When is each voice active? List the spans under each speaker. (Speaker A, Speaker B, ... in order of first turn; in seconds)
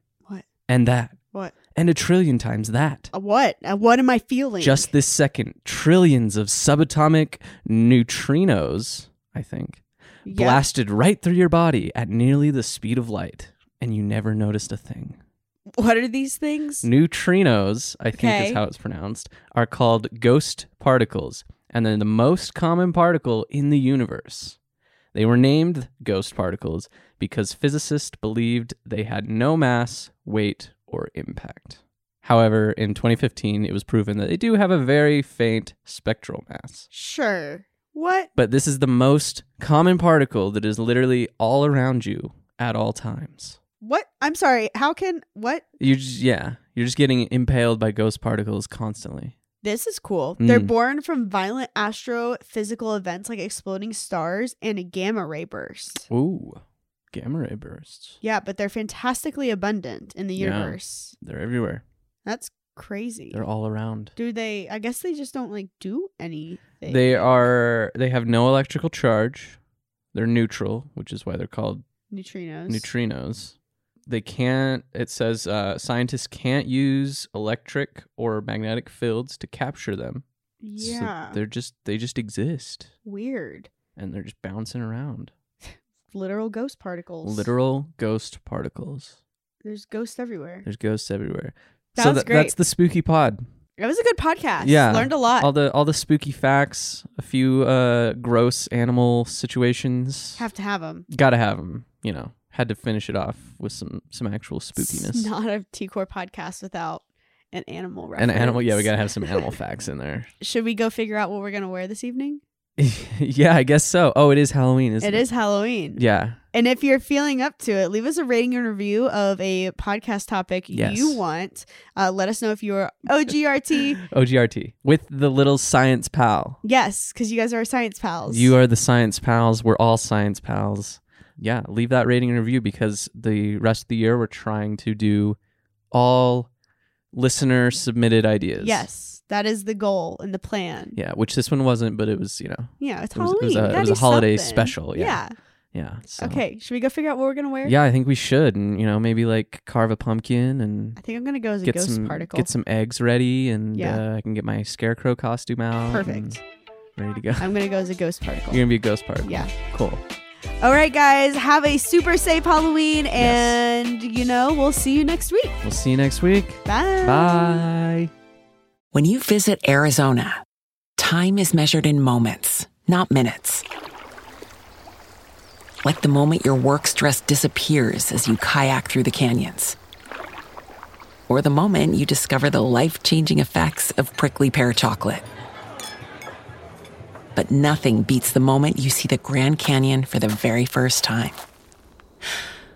Speaker A: 0.7-1.2, 1.7-3.1, 4.6-15.2, 16.8-24.6, 25.1-36.9, 38.4-43.6, 45.8-49.3, 50.4-50.7, 56.1-58.2, 60.4-61.8, 63.3-64.1, 66.9-69.6, 70.1-71.8, 72.7-73.5, 74.1-80.2, 80.8-82.9, 84.0-85.3, 87.2-89.2, 90.6-93.4, 94.6-100.4, 101.1-105.3, 108.2-110.3, 112.8-115.3, 116.0-116.4, 120.7-121.2, 124.0-126.6, 128.3-135.4, 135.9-136.5, 137.1-138.8, 140.9-145.2, 145.7-146.4, 147.6-151.0, 151.6-156.4, 157.0-157.5, 158.5-160.0, 163.2-163.6, 165.6-168.1
Speaker B: 3.1-4.9, 10.2-10.6, 15.7-16.9, 18.1-18.6, 36.9-38.3, 43.8-45.6, 49.6-56.1, 58.2-61.1, 62.2-63.4, 64.2-67.3, 72.1-72.9, 80.6-81.4, 83.0-83.7, 86.1-87.5, 89.6-90.7, 92.0-92.5, 93.8-95.5, 100.4-101.1, 104.8-109.5, 110.4-112.4, 115.0-116.0, 116.5-124.0, 126.6-128.5, 138.6-141.0, 142.8-145.3, 146.2-147.7, 151.0-152.5, 153.7-154.0, 155.9-156.4, 157.4-158.6, 159.2-159.5, 160.6-165.6, 166.6-167.6
Speaker C: 168.9-170.4, 171.0-173.6, 175.8-179.8, 181.3-185.2, 187.3-191.4